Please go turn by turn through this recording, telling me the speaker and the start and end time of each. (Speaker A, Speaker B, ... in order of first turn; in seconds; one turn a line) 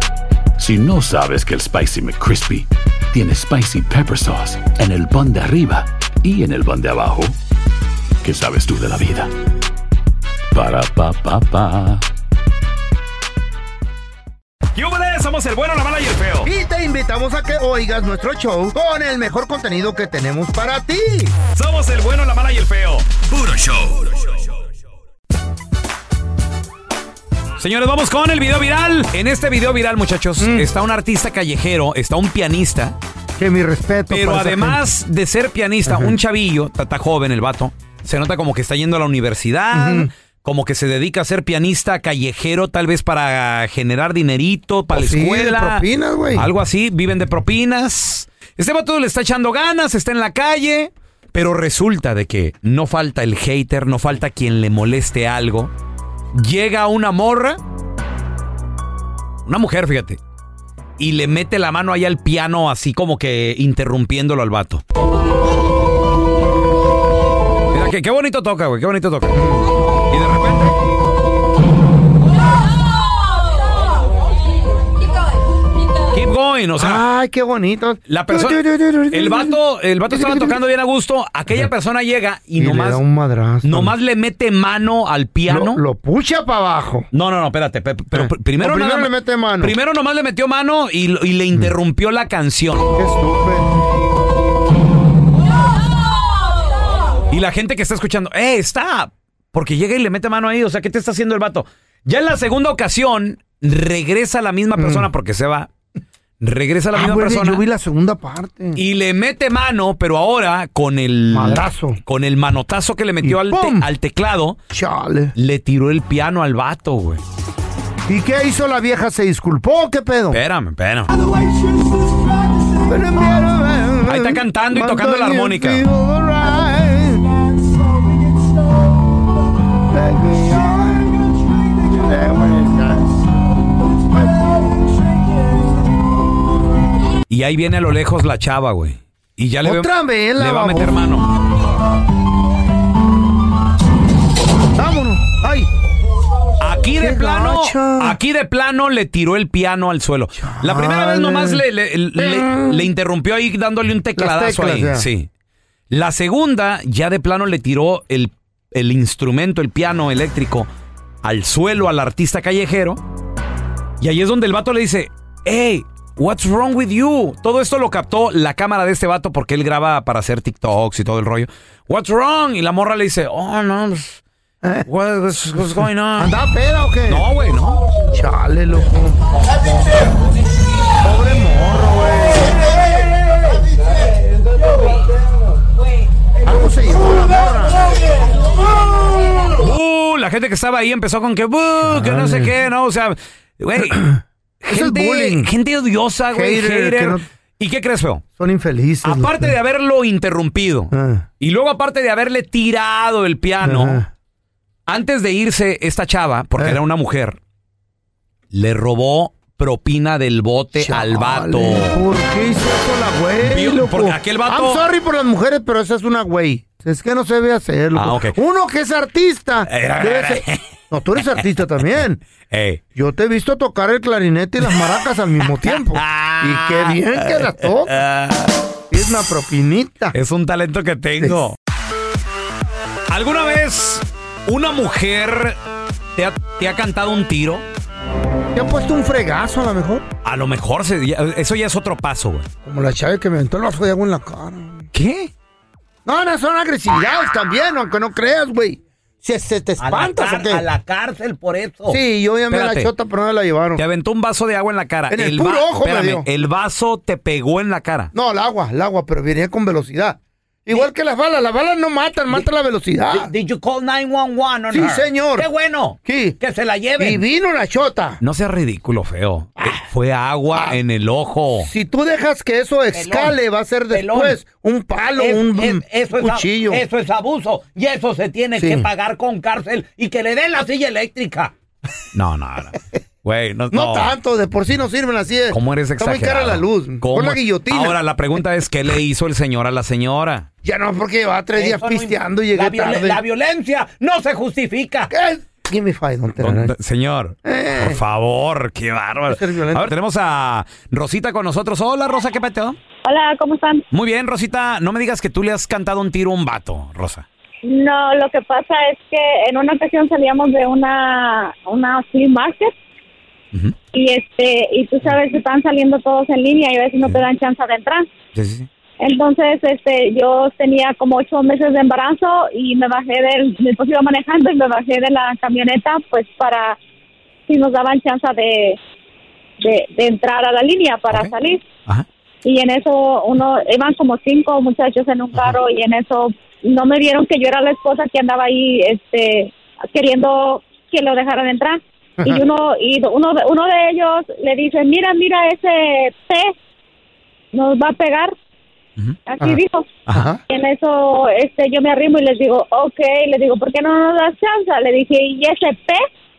Speaker A: 0.6-7.4
Speaker A: 8.2-9.3
Speaker A: 10.5-12.0
Speaker B: 14.8-16.5
Speaker C: 16.4-21.3
Speaker B: 21.5-24.3
Speaker B: 27.6-33.0
Speaker C: 30.4-30.7
Speaker C: 33.4-34.8
Speaker B: 34.1-55.7
Speaker C: 35.9-36.1
Speaker C: 39.7-40.1
Speaker C: 45.0-46.5
Speaker B: 56.3-57.6
Speaker B: 59.5-60.2
Speaker B: 61.0-64.8
Speaker B: 67.7-69.5
Speaker C: 69.3-69.6
Speaker B: 70.1-70.7
Speaker B: 76.1-77.0
Speaker C: 76.8-79.6
Speaker B: 78.1-83.0
Speaker C: 80.1-80.6
Speaker C: 82.6-83.9
Speaker B: 83.6-85.8
Speaker C: 85.5-87.1
Speaker B: 87.1-92.9
Speaker C: 88.1-89.7
Speaker C: 93.0-93.7
Speaker B: 97.3-105.7
Speaker C: 104.8-105.1
Speaker B: 106.4-107.7
Speaker C: 106.9-108.8
Speaker B: 108.8-114.6
Speaker C: 111.3-112.0
Speaker C: 113.2-113.9
Speaker C: 114.7-115.3
Speaker B: 115.3-117.2
Speaker C: 118.1-120.4
Speaker B: 120.3-121.1
Speaker C: 122.7-127.3
Speaker B: 124.1-125.8
Speaker C: 129.9-133.1
Speaker C: 134.1-134.5
Speaker B: 137.3-141.3
Speaker C: 139.6-141.0
Speaker C: 144.8-145.7
Speaker B: 146.6-155.3
Speaker C: 147.0-148.2
Speaker C: 150.4-151.6
Speaker C: 152.2-152.8
Speaker C: 154.2-155.1
Speaker B: 155.9-160.7
Speaker B: 161.2-163.0
Speaker B: 164.0-174.2
Speaker B: 174.9-176.3
Speaker C: 176.2-177.3
Speaker B: 177.1-177.8
Speaker C: 178.1-179.2
Speaker C: 181.0-182.6
Speaker C: 186.4-187.9
Speaker B: 189.6-194.1
Speaker C: 191.9-192.5
Speaker C: 193.9-194.2
Speaker B: 194.6-198.2
Speaker C: 194.7-195.5
Speaker C: 196.3-197.2
Speaker C: 198.4-199.5
Speaker B: 199.0-204.0
Speaker C: 200.9-201.3
Speaker C: 203.6-204.1
Speaker B: 204.9-207.4
Speaker B: 208.5-212.0
Speaker C: 210.8-222.2
Speaker B: 213.4-214.8
Speaker B: 217.9-218.4
Speaker B: 219.7-220.6
Speaker B: 221.2-221.4
Speaker B: 222.5-222.8
Speaker C: 222.9-227.9
Speaker B: 225.4-228.6
Speaker C: 228.9-230.2
Speaker B: 230.1-231.6
Speaker B: 233.1-235.6
Speaker B: 236.2-237.7
Speaker C: 238.5-240.1
Speaker B: 240.2-242.5
Speaker C: 242.6-244.9
Speaker B: 244.9-245.3
Speaker C: 246.1-250.6
Speaker B: 249.8-252.0
Speaker C: 251.9-253.8
Speaker B: 252.5-252.9
Speaker B: 253.8-258.1
Speaker C: 255.1-256.3
Speaker C: 258.1-263.3
Speaker B: 263.1-267.2
Speaker C: 264.7-265.5
Speaker C: 266.1-266.4
Speaker C: 267.0-268.2
Speaker B: 268.2-271.7
Speaker C: 271.6-276.8
Speaker B: 272.9-273.4
Speaker B: 273.9-274.4
Speaker B: 275.2-281.5
Speaker C: 278.6-278.9
Speaker B: 282.1-284.1
Speaker C: 283.7-288.0
Speaker B: 285.5-290.5
Speaker C: 290.6-293.2
Speaker B: 291.6-295.1
Speaker C: 295.1-296.7
Speaker B: 296.4-302.8
Speaker C: 297.4-298.0
Speaker C: 299.3-299.9
Speaker D: 303.1-303.9
Speaker B: 303.9-307.3
Speaker D: 307.6-312.7
Speaker D: 313.9-318.1
Speaker B: 318.3-318.7
Speaker D: 319.0-326.8
Speaker D: 327.5-328.8
Speaker D: 329.6-331.7
Speaker D: 332.4-346.6
Speaker D: 347.5-348.3
Speaker D: 349.3-356.1
Speaker C: 350.1-350.4